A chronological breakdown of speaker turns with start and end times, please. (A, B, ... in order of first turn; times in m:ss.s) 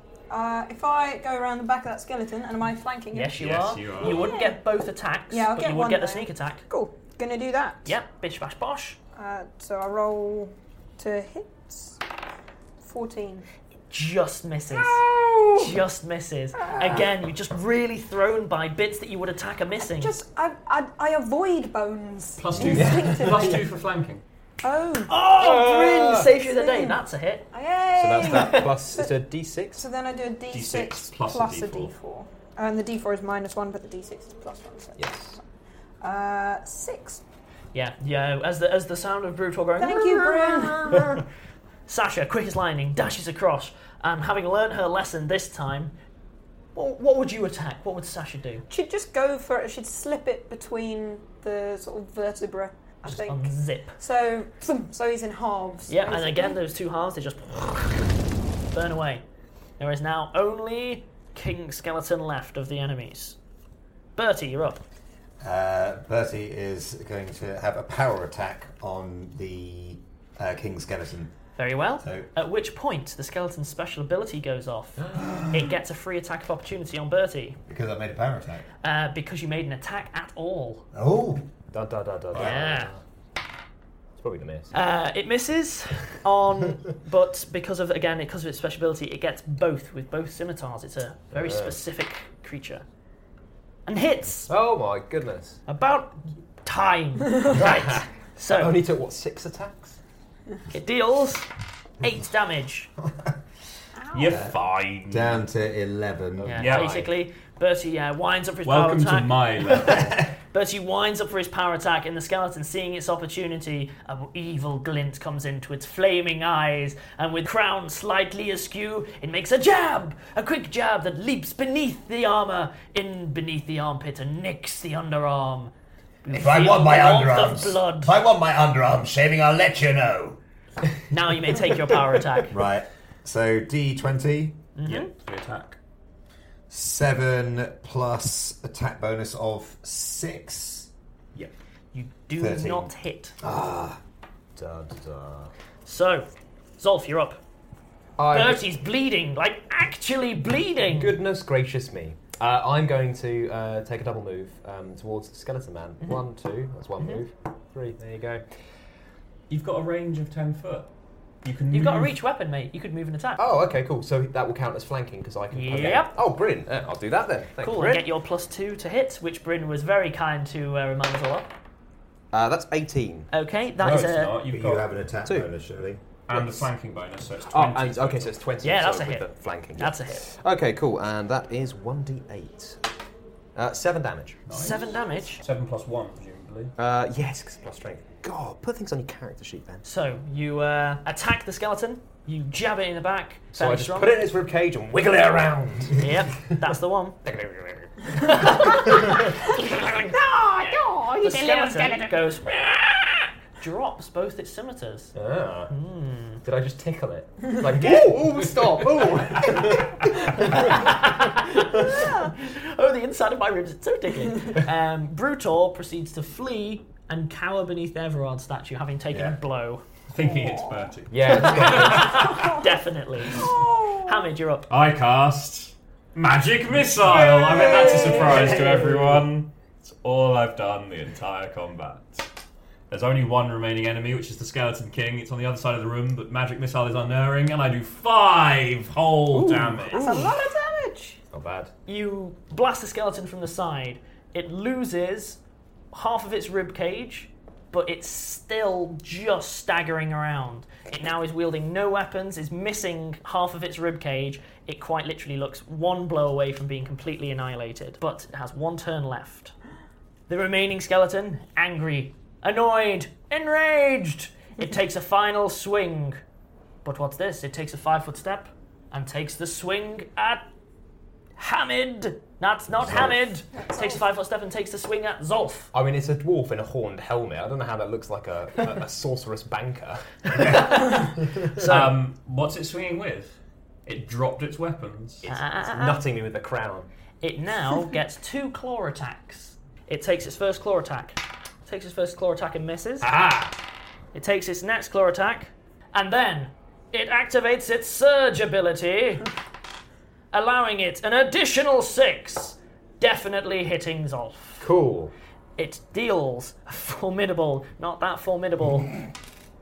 0:00.3-0:03.4 A
0:03.1-0:06.6 B
0:03.4-0:04.3 C
0:04.0-0:04.6 A
0:05.3-0:07.9 A
0:07.8-0:09.0 B
0:09.2-0:12.0 A
0:12.8-0:13.5 A
0:13.9-0:15.0 B
0:14.7-0:15.8 A
0:15.6-0:20.2 B
0:16.6-0:17.1 A
0:19.9-0:23.6 A
0:22.4-0:24.2 C
0:22.7-0:23.6 D
0:24.6-0:25.1 A
0:25.1-0:27.5 B
0:25.3-0:26.3 D
0:26.4-0:29.1 A
0:28.0-0:29.8 D
0:29.8-0:35.4 A
0:30.5-0:31.9 C
0:35.0-0:35.4 D
0:36.0-0:37.2 A
0:37.7-0:41.2 B
0:39.8-0:41.2 A
0:41.9-0:45.9 B
0:46.8-0:48.6 B
0:48.7-0:56.6 A
0:53.0-0:54.0 B
0:55.9-0:58.2 B
0:58.7-0:59.2 B
0:59.8-1:03.4 B
1:04.2-1:04.8 B
1:05.4-1:11.3 E
1:11.6-1:17.6 B
1:12.0-1:12.3 E
1:15.0-1:15.4 D
1:17.7-1:18.7 E
1:18.8-1:20.9 B
1:20.9-1:21.5 E
1:21.7-1:23.0 D
1:22.3-1:22.9 B
1:24.2-1:24.7 D
1:24.7-1:32.8 B
1:31.3-1:31.8 D
1:33.9-1:34.5 B
1:34.5-1:35.6 D
1:35.7-1:38.8 B
1:37.5-1:40.0 D
1:40.7-1:41.5 B
1:42.0-1:42.9 B
1:44.0-1:44.4 A
1:44.1-1:45.4 C
1:44.3-1:44.6 E
1:45.1-1:46.7 E
1:46.4-1:49.4 B
1:46.5-1:47.0 C
1:46.6-1:47.1 D
1:48.7-1:50.2 C
1:50.5-2:05.7 B
2:06.2-2:08.2 B
2:06.3-2:10.4 E
2:11.1-2:12.6 B
2:12.5-2:14.6 E
2:14.8-2:15.1 B
2:14.8-2:15.8 C
2:16.7-2:20.9 E
2:21.9-2:23.4 B
2:22.4-2:24.0 E
2:24.6-2:25.5 D
2:25.8-2:26.3 B
2:26.8-2:27.4 B
2:28.2-2:28.7 D
2:28.3-2:31.2 B
2:30.8-2:38.4 D
2:39.5-2:40.9 C
2:41.4-2:42.2 C
2:41.7-2:43.4 B
2:43.4-2:48.1 D
2:45.5-2:46.2 B
2:47.6-2:51.5 B
2:52.3-2:53.3 D
2:53.3-2:54.3 B
2:53.8-2:55.0 C
2:54.5-2:56.0 E
2:55.2-2:55.5 D
2:56.3-2:58.4 C
2:56.3-2:56.7 D
2:57.5-3:02.8 D
2:58.6-3:00.2 B
3:03.6-3:04.4 D
3:04.5-3:06.7 C
3:04.5-3:05.4 B
3:06.8-3:09.8 D
3:09.8-3:14.2 B
3:13.5-3:16.6 D
3:16.0-3:17.2 B
3:17.2-3:19.3 D
3:18.3-3:20.1 B
3:20.1-3:22.1 A
3:21.2-3:23.0 B
3:23.6-3:25.1 B
3:25.2-3:25.7 D
3:25.7-3:26.4 B
3:26.4-3:31.1 D
3:30.4-3:39.8 B
3:39.1-3:39.4 E
3:40.1-3:42.5 C
3:40.2-3:40.6 A
3:41.1-3:42.3 D
3:41.4-3:44.7 B
3:42.3-3:42.6 A
3:43.3-3:44.2 A
3:44.7-3:52.3 C
3:47.1-3:48.6 A
3:47.6-3:49.2 D
3:52.9-4:00.3 C
3:59.3-4:00.3 D
3:59.9-4:01.2 A
4:01.3-4:01.7 D
4:01.9-4:05.4 B
4:05.9-4:19.5 B
4:20.3-4:26.2 B
4:26.8-4:30.5 B
4:31.4-4:35.7 B
4:32.8-4:33.1 E
4:33.5-4:34.0 A
4:35.7-4:41.7 D
4:40.4-4:40.7 E
4:40.4-4:42.0 B
4:41.6-4:45.3 C
4:45.2-4:46.9 D
4:45.3-4:46.0 B
4:47.2-4:53.1 B
4:53.0-4:53.5 D
4:54.1-4:59.3 B
5:00.3-5:04.7 B
5:04.6-5:05.1 D
5:05.6-5:08.9 B